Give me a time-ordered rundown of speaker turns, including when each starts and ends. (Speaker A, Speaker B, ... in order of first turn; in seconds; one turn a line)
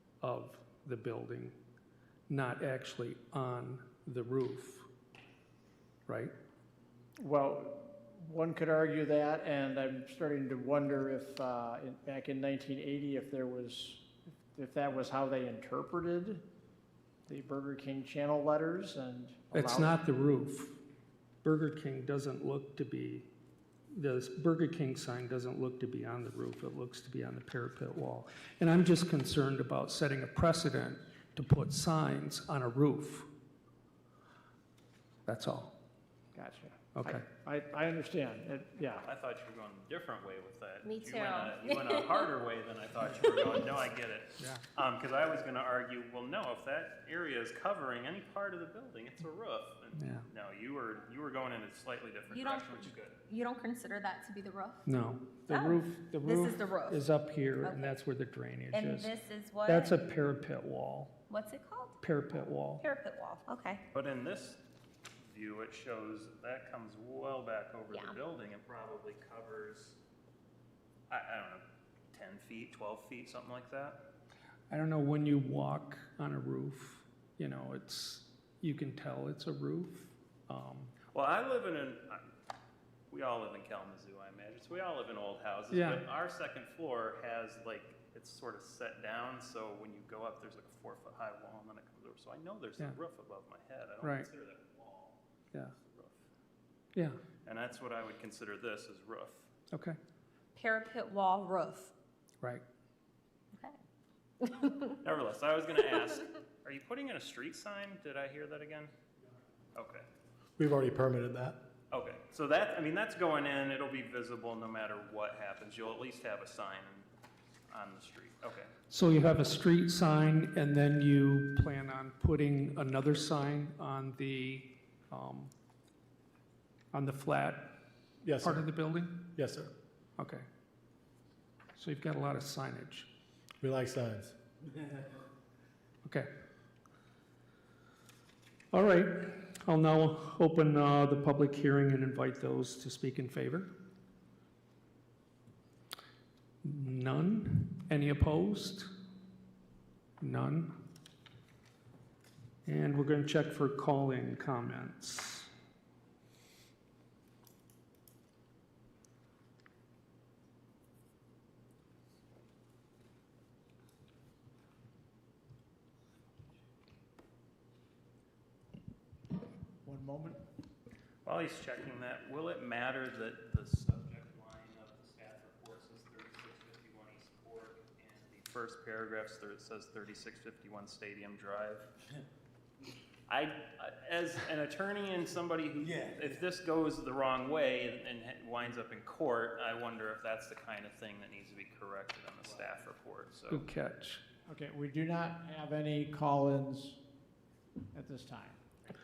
Speaker A: 0.2-1.6
Speaker A: 2.3-4.9
Speaker A: 6.1-6.3
Speaker B: 7.2-16.4
Speaker B: 17.3-20.0
Speaker A: 19.5-20.8
Speaker A: 21.4-23.3
Speaker A: 23.9-33.3
Speaker A: 35.3-35.7
Speaker B: 36.4-39.1
Speaker A: 37.0-37.2
Speaker C: 39.0-53.2
Speaker D: 40.8-42.3
Speaker A: 50.0-50.3
Speaker D: 52.3-54.9
Speaker A: 54.9-59.1
Speaker D: 55.5-57.0
Speaker D: 57.6-58.0
Speaker D: 58.7-60.0
Speaker A: 59.6-61.2
Speaker D: 61.3-62.0
Speaker A: 62.0-62.9
Speaker D: 62.8-63.8
Speaker C: 63.9-64.6
Speaker C: 65.2-70.0
Speaker D: 67.9-68.2
Speaker C: 71.1-74.0
Speaker A: 74.7-80.9
Speaker C: 81.1-82.3
Speaker C: 83.1-95.2
Speaker A: 85.7-86.0
Speaker A: 94.0-94.3
Speaker C: 95.8-96.2
Speaker C: 97.5-99.5
Speaker A: 99.7-100.0
Speaker D: 100.5-101.9
Speaker D: 103.5-103.8
Speaker D: 104.4-105.0
Speaker C: 105.0-108.9
Speaker C: 109.8-110.1
Speaker E: 110.6-111.6
Speaker C: 111.9-117.1
Speaker C: 117.7-118.7
Speaker A: 118.9-125.5
Speaker A: 126.9-127.8
Speaker E: 128.2-128.7
Speaker A: 128.4-129.4
Speaker E: 129.3-129.7
Speaker A: 130.2-130.5
Speaker A: 131.8-133.1
Speaker E: 133.6-134.3
Speaker A: 138.7-143.7
Speaker A: 146.6-148.9
Speaker A: 150.2-150.8
Speaker A: 152.7-155.5
Speaker B: 169.8-170.4
Speaker C: 171.2-181.9
Speaker C: 183.3-193.7
Speaker A: 193.5-194.2
Speaker B: 194.5-197.0
Speaker B: 197.9-198.6